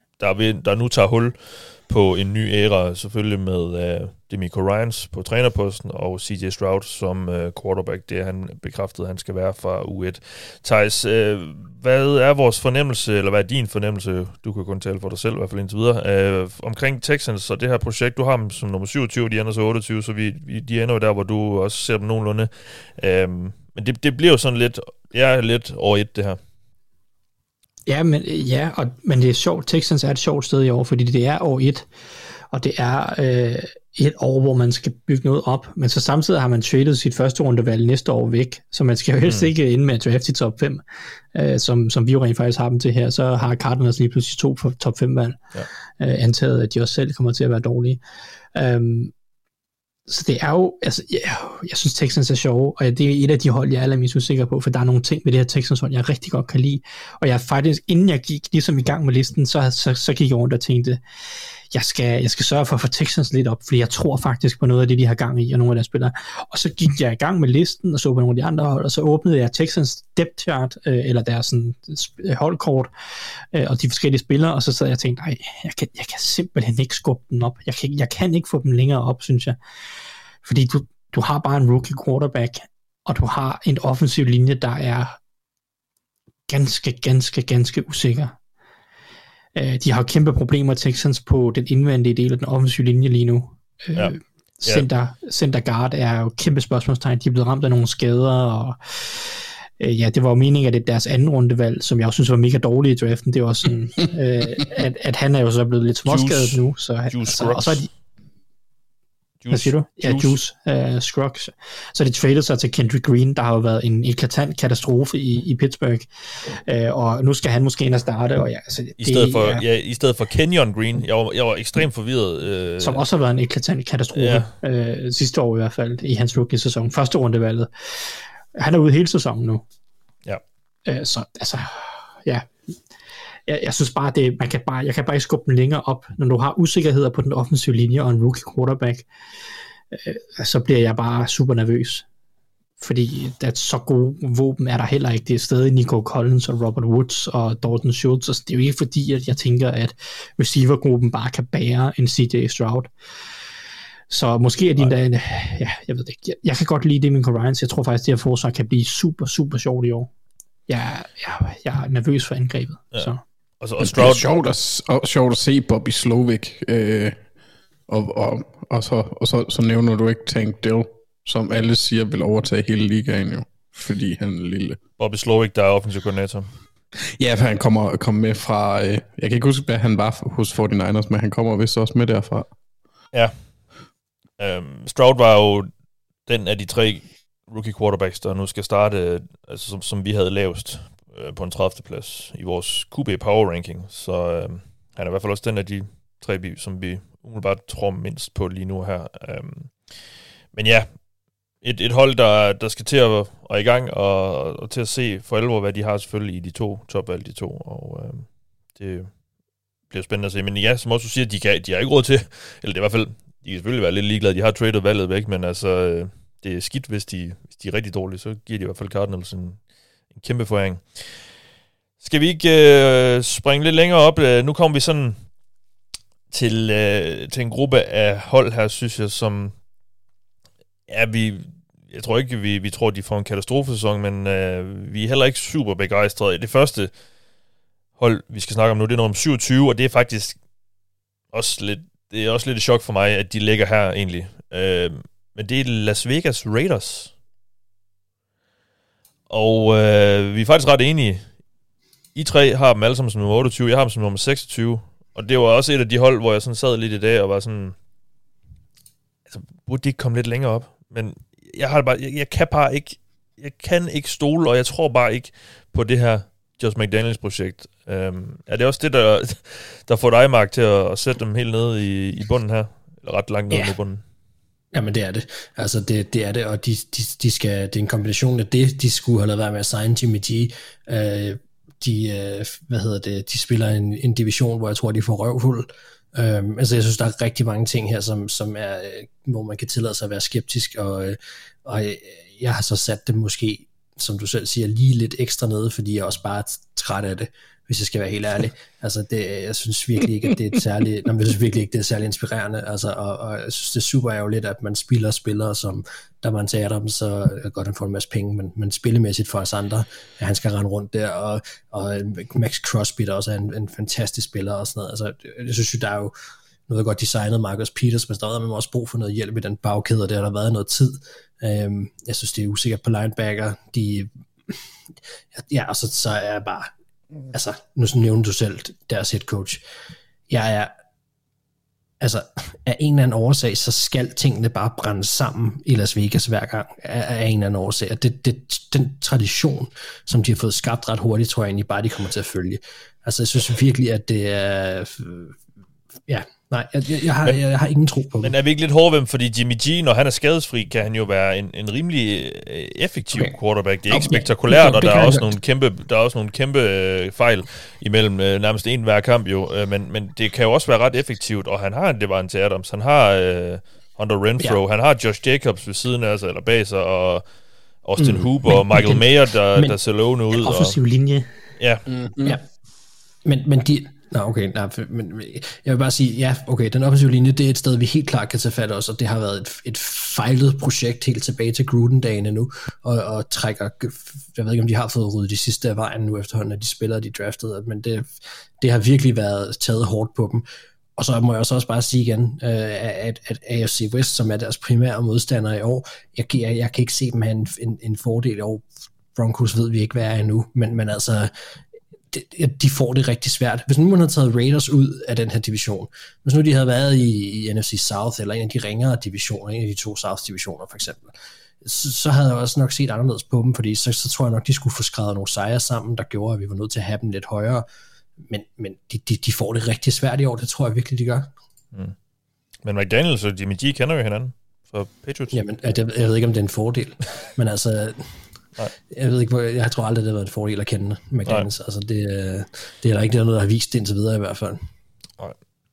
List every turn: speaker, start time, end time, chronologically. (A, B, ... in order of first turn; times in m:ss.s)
0:00.2-0:26.4 A
0:27.9-0:31.9 B
0:32.5-0:40.8 B
0:39.3-0:39.5 A
0:41.3-0:45.4 B
0:46.0-0:48.0 B
0:48.5-0:49.1 B
0:50.1-1:01.0 B
1:01.7-1:12.9 B
1:13.5-1:19.6 B
1:20.4-1:25.2 B
1:26.5-1:28.4 B
1:29.6-1:47.9 B
1:34.0-1:34.8 A
1:46.0-1:47.9 A
1:49.4-1:50.4 A
1:49.5-1:59.6 B
1:59.0-2:03.0 A
2:02.8-2:09.6 B
2:04.1-2:04.5 A
2:10.9-2:12.5 B
2:13.5-2:19.1 B
2:19.9-2:22.1 B
2:22.8-2:32.9 B
2:34.1-2:40.1 B
2:40.7-2:43.2 B
2:42.9-2:44.3 A
2:43.8-2:47.2 C
2:47.9-2:54.8 C
2:55.0-2:56.5 A
2:57.2-3:02.5 C
3:04.4-3:05.7 A
3:06.3-3:20.9 A
3:21.6-3:29.1 A
3:29.9-3:39.6 A
3:40.1-3:41.1 A
3:42.0-3:45.2 A
3:46.3-3:49.6 A
3:50.9-3:56.9 A
3:58.0-4:00.4 A
4:01.3-4:07.1 A
4:09.3-4:11.3 A
4:12.2-4:17.8 A
4:19.3-4:34.0 A
4:34.7-5:16.1 D
5:16.7-5:24.6 D
5:25.3-5:26.7 D
5:27.3-5:29.6 D
5:30.3-5:30.7 D
5:32.0-5:45.4 D
5:46.1-5:48.3 D
5:48.2-6:07.2 A
5:53.9-5:55.3 D
6:07.8-6:10.8 A
6:08.0-6:09.8 D
6:10.4-6:11.3 B
6:11.6-6:11.8 A
6:11.9-6:12.4 C
6:13.2-6:30.5 D
6:31.0-6:41.3 D
6:42.1-6:57.7 D
6:58.2-7:01.3 D
7:02.6-7:05.4 A
7:05.3-7:08.1 D
7:08.9-7:14.6 D